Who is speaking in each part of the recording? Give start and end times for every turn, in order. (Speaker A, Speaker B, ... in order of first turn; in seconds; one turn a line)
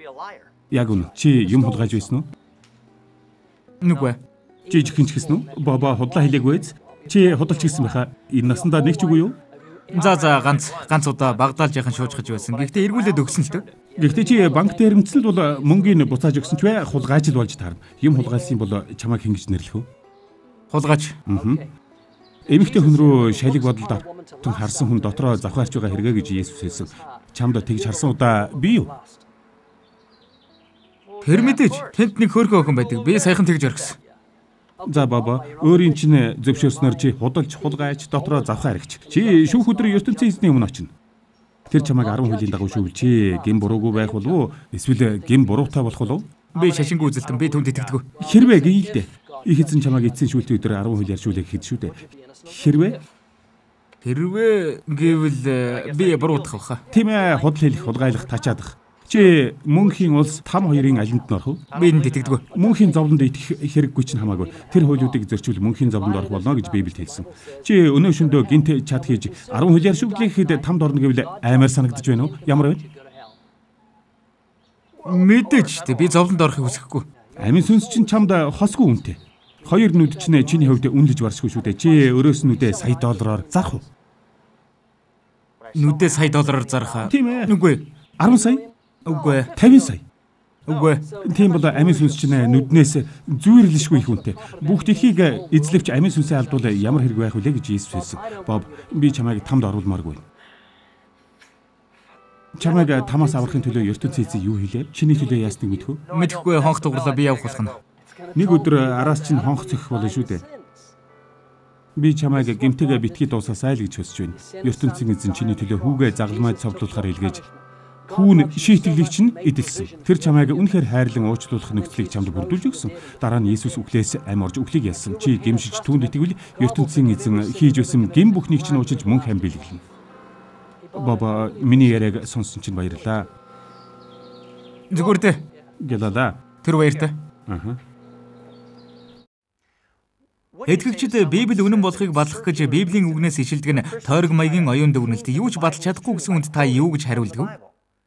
Speaker A: 0.7-2.3
Speaker B: 3.8-4.2
Speaker A: 4.7-9.4
Speaker B: 9.9-13.7
Speaker A: 14.0-19.9
Speaker B: 20.7-21.2
Speaker A: 21.2-21.7
Speaker A: 22.5-28.9
Speaker B: 31.2-34.0
Speaker A: 34.8-40.9
Speaker A: 41.7-46.3
Speaker B: 46.5-48.0
Speaker A: 48.2-53.0
Speaker B: 54.0-56.8
Speaker A: 56.9-61.6
Speaker B: 61.7-62.4
Speaker A: 62.5-72.8
Speaker B: 75.0-77.0
Speaker A: 77.4-83.8
Speaker B: 85.7-87.8
Speaker A: 87.0-87.5
Speaker A: 88.2-88.7
Speaker B: 89.0-89.5
Speaker A: 89.5-90.0
Speaker B: 90.7-91.0
Speaker A: 91.2-100.2
Speaker A: 102.5-106.0
Speaker B: 106.1-107.8
Speaker A: 108.3-110.4
Speaker A: 112.0-117.4
Speaker A: 118.1-129.8
Speaker A: 130.9-133.3
Speaker B: 134.9-135.4
Speaker A: 135.8-136.4
Speaker B: 136.6-137.2
Speaker A: 137.5-137.8
Speaker B: 140.7-147.5